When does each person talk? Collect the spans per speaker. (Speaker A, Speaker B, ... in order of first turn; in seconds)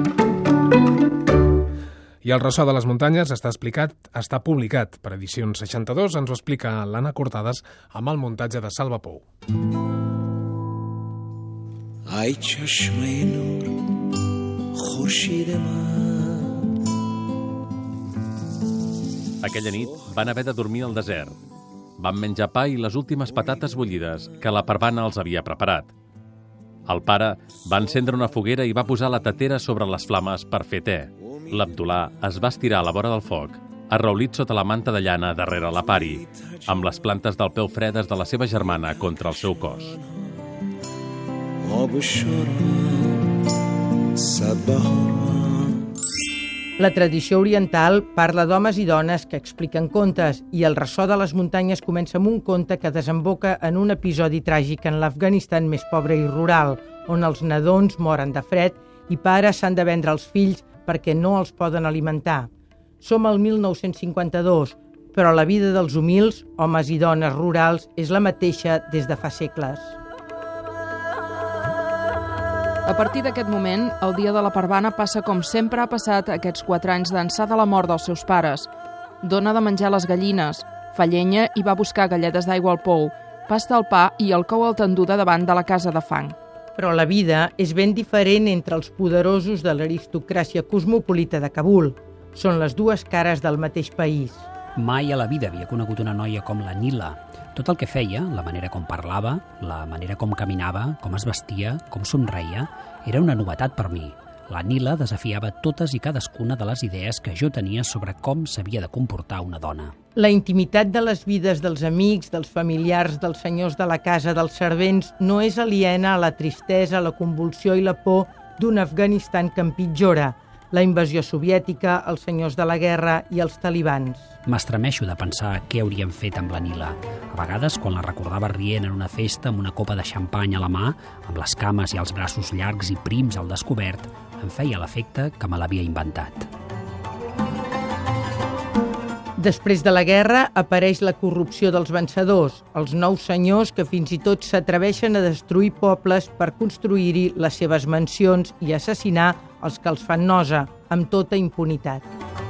Speaker A: 2.2-9.2
Speaker B: 12.1-13.8, 14.8-16.5, 41.6-43.2, 44.2-45.7
Speaker C: 19.4-21.4, 22.0-25.9, 26.9-40.0
Speaker D: 46.8-62.5, 63.0-70.0, 86.8-94.5, 110.2-124.3, 139.4-152.1
Speaker E: 72.9-78.7, 79.2-86.4
Speaker F: 94.8-109.9, 124.5-136.5